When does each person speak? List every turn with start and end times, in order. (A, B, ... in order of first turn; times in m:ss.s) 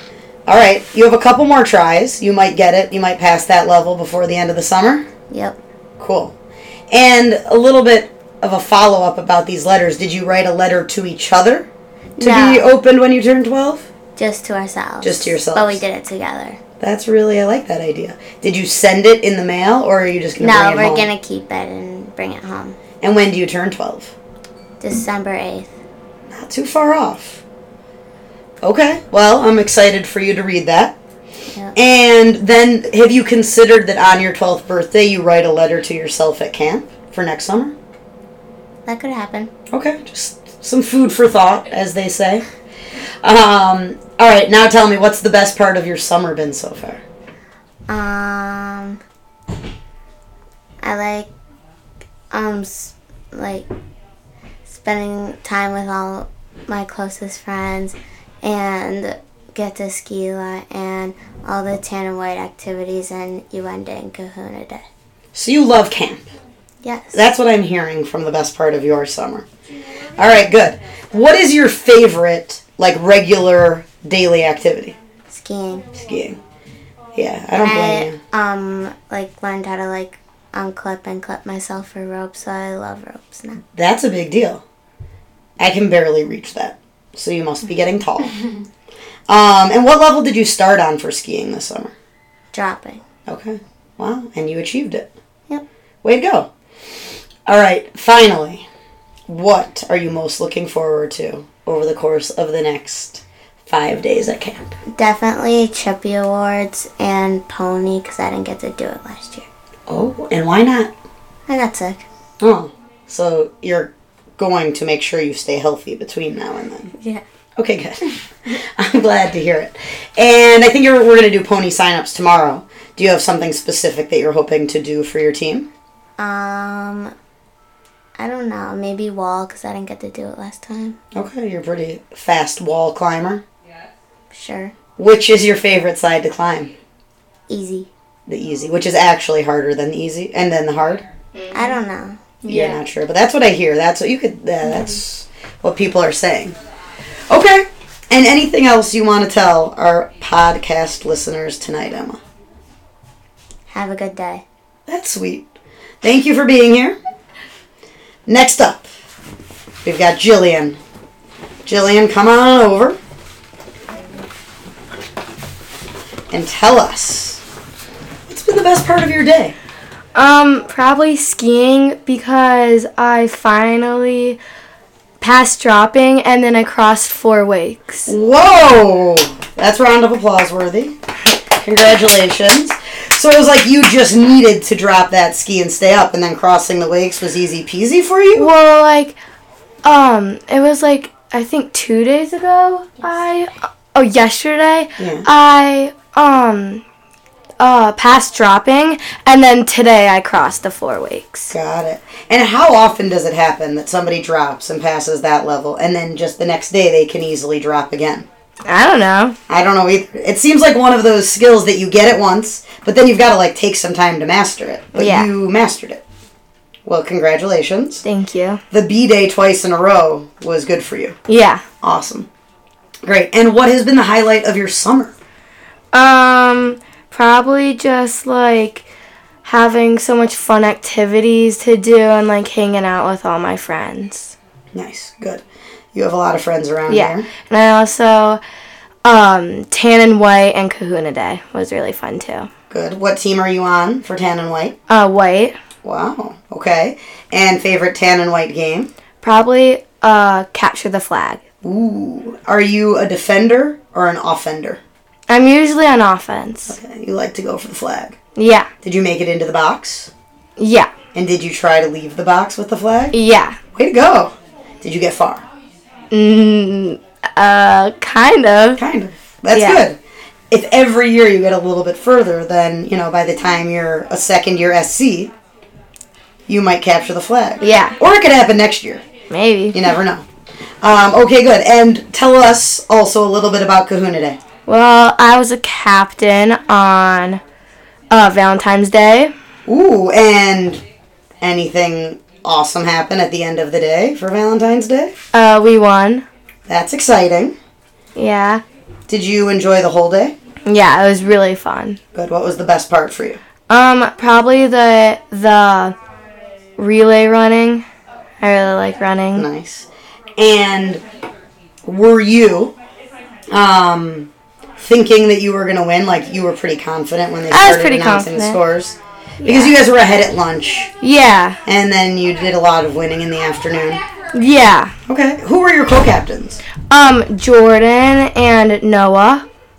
0:00.5-0:05.1 A
0:05.3-0:05.6 B
0:06.0-0:06.4 A
0:06.9-0:11.7 A
0:12.2-0:12.6 B
0:12.2-0:13.9 A
0:14.2-0:16.6 B
0:15.0-0:15.8 A
0:16.8-0:21.1 A
0:20.4-0:22.8 B
0:23.0-0:24.1 A
0:24.8-0:25.7 B
0:26.3-0:27.4 A
0:28.6-0:31.0 A
0:31.8-0:37.8 A
0:38.9-0:39.5 B
0:39.7-0:42.4 A
0:43.2-0:47.0 A
0:47.9-0:49.0 B
0:50.8-0:51.3 B
0:52.3-0:53.7 B
0:54.7-1:04.8 B
1:05.3-1:06.3 A
1:06.8-1:07.2 B
1:07.1-1:09.5 A
1:10.2-1:15.0 A
1:15.3-1:16.0 B
1:16.0-1:16.4 A
1:17.2-1:18.2 A
1:17.6-1:23.6 B
1:23.8-1:24.6 A
1:25.6-1:28.4 A
1:29.3-1:31.9 A
1:32.5-1:33.0 B
1:33.3-1:35.1 A
1:36.0-1:36.5 A
1:37.5-1:38.7 A
1:39.3-1:44.7 A
1:44.9-1:49.5 B
1:49.9-1:50.9 A
1:51.5-1:52.0 B
1:52.4-1:56.9 A
1:57.0-1:57.2 B
1:57.6-1:58.0 A
1:58.6-2:05.7 A
2:06.2-2:07.1 B
2:08.2-2:11.0 B
2:11.1-2:13.4 A
2:14.3-2:14.8 B
2:15.0-2:16.7 A
2:17.5-2:17.9 B
2:18.3-2:21.1 A
2:21.5-2:22.4 B
2:22.4-2:26.6 A
2:27.3-2:32.2 A
2:33.7-2:34.4 B
2:34.9-2:35.5 A
2:36.0-2:37.0 A
2:38.3-2:38.9 A
2:39.8-2:40.8 A
2:41.6-2:43.0 A
2:46.3-2:47.4 A
2:48.3-2:49.6 A
2:50.2-2:54.4 C
2:55.2-2:58.1 C
2:58.1-3:01.0 A
3:01.6-3:08.5 A
3:08.4-3:09.2 C
3:09.8-3:16.8 C
3:15.0-3:15.3 A
3:17.6-3:21.5 C
3:21.5-3:28.3 A
3:28.7-3:29.4 C
3:29.5-3:36.0 A
3:35.0-3:35.3 C
3:36.9-3:38.0 A
3:38.0-3:38.6 C
3:38.7-3:41.2 A
3:41.3-3:41.6 C
3:41.8-3:42.3 A
3:43.0-3:45.1 A
3:45.9-3:48.9 C
3:49.4-3:54.4 C
3:54.7-3:55.4 A
3:55.9-3:57.3 A
3:56.9-3:58.4 C
3:59.0-4:02.5 C
4:02.7-4:04.8 A
4:04.9-4:05.6 C
4:05.8-4:08.9 A
4:09.2-4:11.4 C
4:11.6-4:14.8 A
4:15.3-4:16.8 C
4:16.7-4:18.2 A
4:18.4-4:18.7 C
4:18.8-4:20.1 A
4:20.6-4:20.9 C
4:21.1-4:23.2 A
4:23.1-4:23.6 C
4:23.8-4:25.4 A
4:26.1-4:28.8 C
4:28.8-4:30.0 A
4:29.5-4:29.8 C
4:30.5-4:35.3 A
4:36.5-4:39.0 A
4:37.6-4:38.0 C
4:39.3-4:39.8 C
4:39.7-4:40.3 A
4:40.8-4:44.4 A
4:44.7-4:47.4 C
4:48.1-4:49.3 C
4:49.7-4:50.8 A
4:51.4-4:55.2 A
4:55.3-4:56.3 C
4:56.7-4:57.6 A
4:58.2-4:58.6 C
4:59.1-5:00.4 A
5:00.7-5:02.0 C
5:02.1-5:03.4 A
5:03.7-5:06.0 C
5:06.8-5:07.8 C
5:08.4-5:09.5 C
5:09.4-5:09.9 A
5:10.4-5:11.0 A
5:11.8-5:12.8 A
5:13.5-5:20.9 A
5:17.5-5:18.6 C
5:19.4-5:19.8 C
5:21.0-5:21.6 C
5:21.6-5:24.0 A
5:24.3-5:24.9 C
5:25.1-5:26.6 A
5:26.9-5:29.4 C